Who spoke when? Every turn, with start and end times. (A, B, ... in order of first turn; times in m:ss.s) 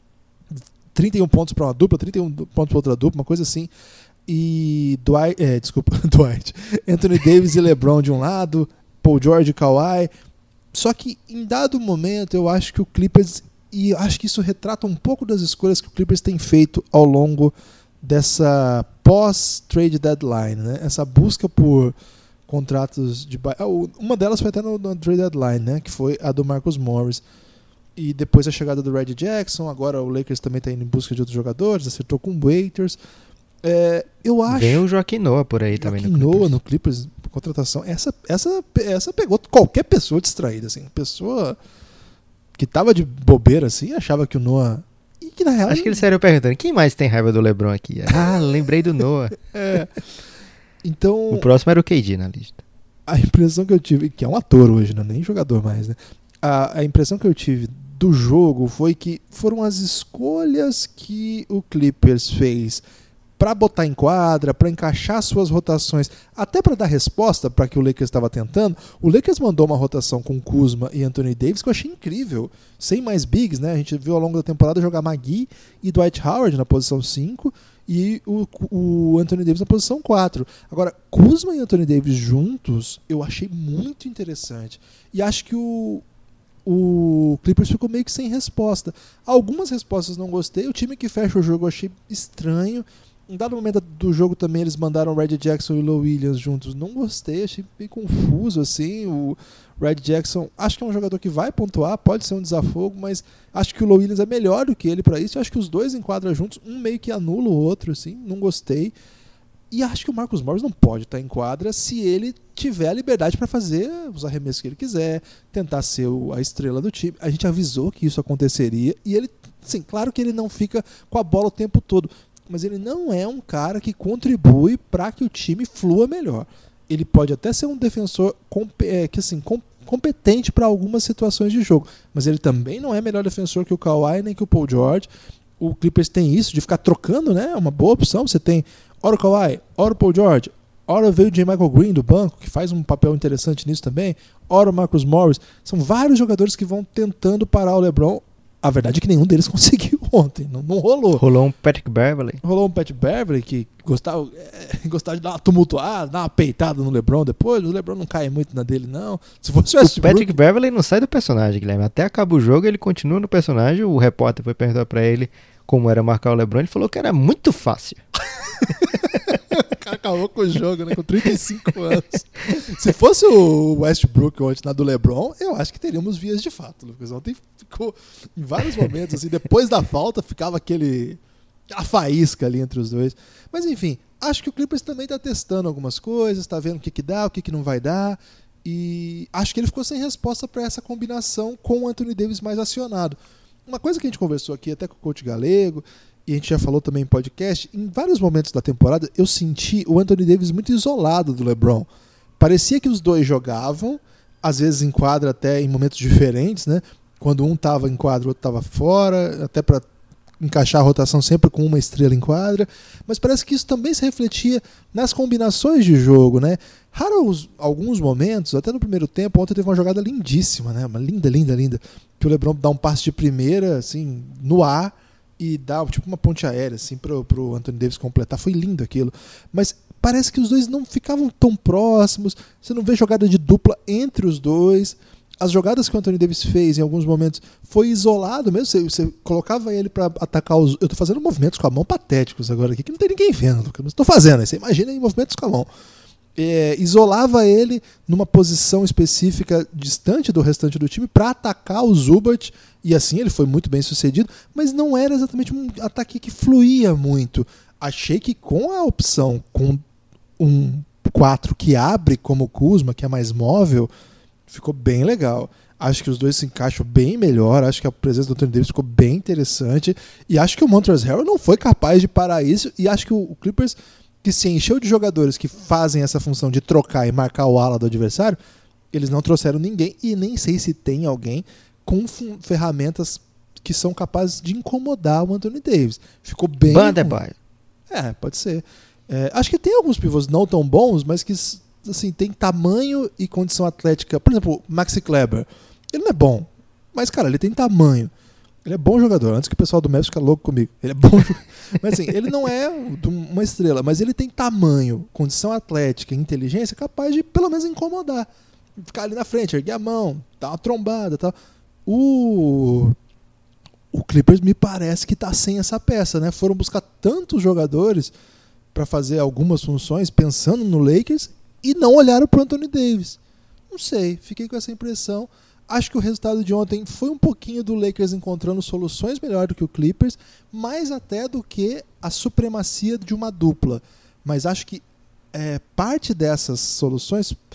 0:00.5-0:03.7 A
0:04.3-0:10.1 A
0:10.7-0:21.9 A
0:22.5-0:27.2 A
0:28.0-0:33.0 A
0:33.6-0:34.8 A
0:34.5-0:36.5 B
0:35.8-0:41.6 A
0:42.6-0:46.0 A
0:45.7-0:49.4 B
0:49.4-0:50.0 A
0:50.8-0:51.5 A
0:51.3-0:52.6 B
0:53.1-1:02.8 A
1:03.4-1:26.0 A
1:26.6-1:48.9 A
1:49.7-2:15.1 A
2:15.6-2:31.2 A
2:31.1-2:32.4 B
2:32.4-2:40.4 A
2:39.8-2:48.0 B
2:48.5-3:21.9 A
3:22.4-3:29.8 A
3:30.4-4:05.7 A
4:06.4-4:19.8 A
4:20.4-4:23.9 A
4:24.5-4:38.4 A
4:38.9-4:47.2 A
4:46.7-4:47.3 B
4:47.9-4:58.1 A
4:58.6-5:11.3 A
5:11.8-5:13.0 A
5:13.9-5:18.1 A
5:18.7-5:23.2 A
5:23.7-5:37.4 A